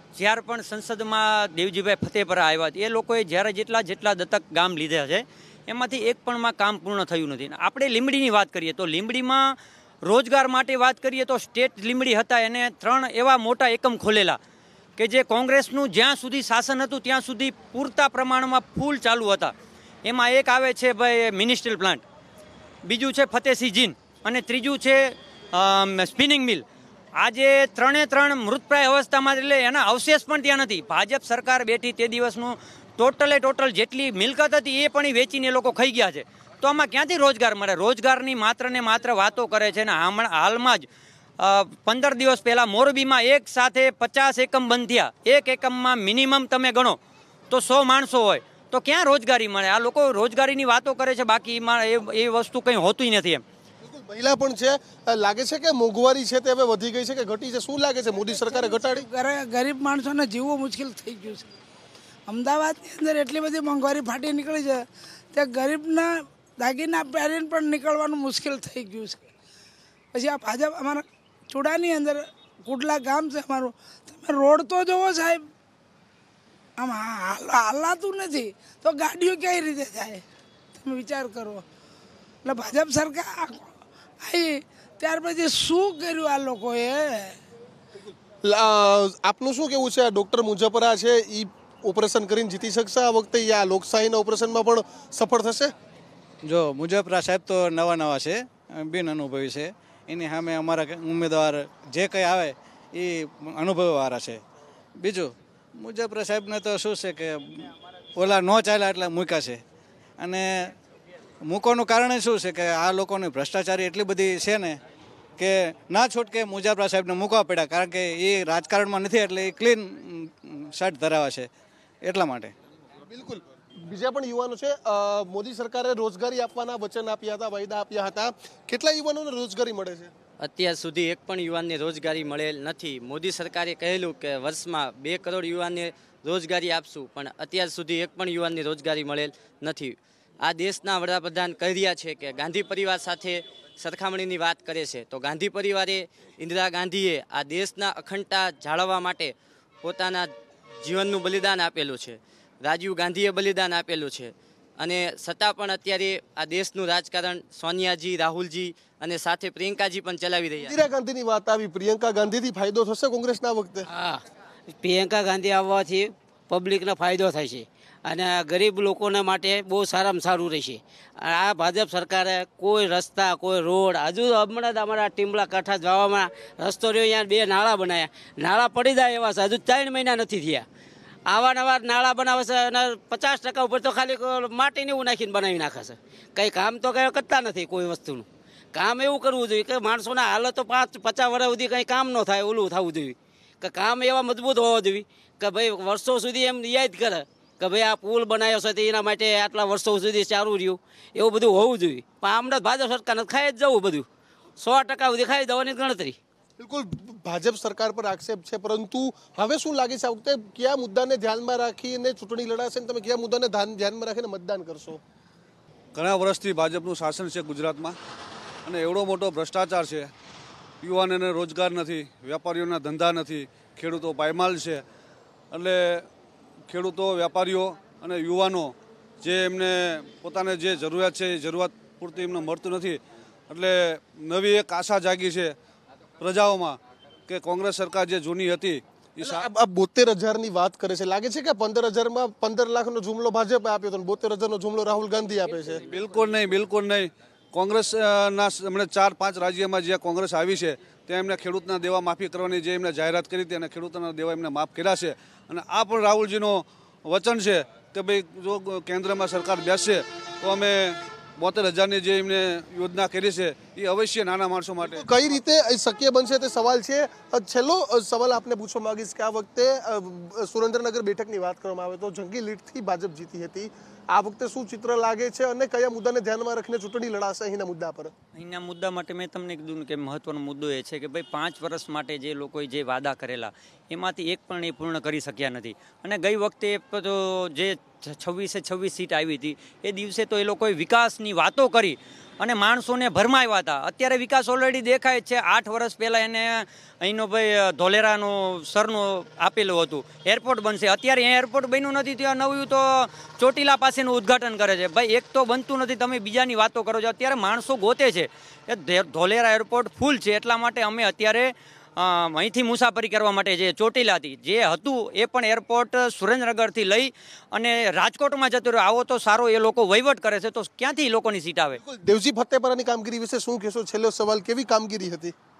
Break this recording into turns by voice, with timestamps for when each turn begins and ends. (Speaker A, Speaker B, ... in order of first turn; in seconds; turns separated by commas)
Speaker A: 0.1-14.4, Speaker A: 15.0-19.5, Speaker A: 20.0-22.0, Speaker A: 22.9-26.6, Speaker A: 27.2-40.9, Speaker A: 41.4-47.0, Speaker A: 47.5-53.4, Speaker B: 53.8-59.1, Speaker C: 58.4-61.5, Speaker C: 62.3-69.2, Speaker C: 70.1-75.5, Speaker C: 76.8-80.2, Speaker C: 80.7-81.6, Speaker C: 82.4-83.7, Speaker C: 84.2-87.3, Speaker B: 88.4-95.7, Speaker D: 96.4-104.4, Speaker D: 105.0-109.6, Speaker D: 110.2-110.7, Speaker D: 111.4-114.8, Speaker D: 115.4-121.5, Speaker D: 122.0-122.5, Speaker B: 123.1-130.1, Speaker E: 130.4-160.8, Speaker B: 160.6-163.8, Speaker F: 163.8-180.7, Speaker F: 181.3-204.1, Speaker F: 204.6-206.2, Speaker B: 206.6-215.0, Speaker G: 215.9-218.0, Speaker G: 218.7-220.1, Speaker G: 220.8-224.8, Speaker G: 225.5-226.1, Speaker G: 226.7-235.5, Speaker G: 236.2-239.5, Speaker B: 239.2-245.8, Speaker G: 245.8-265.1, Speaker B: 264.8-278.1, Speaker A: 278.3-321.8, Speaker B: 321.8-325.3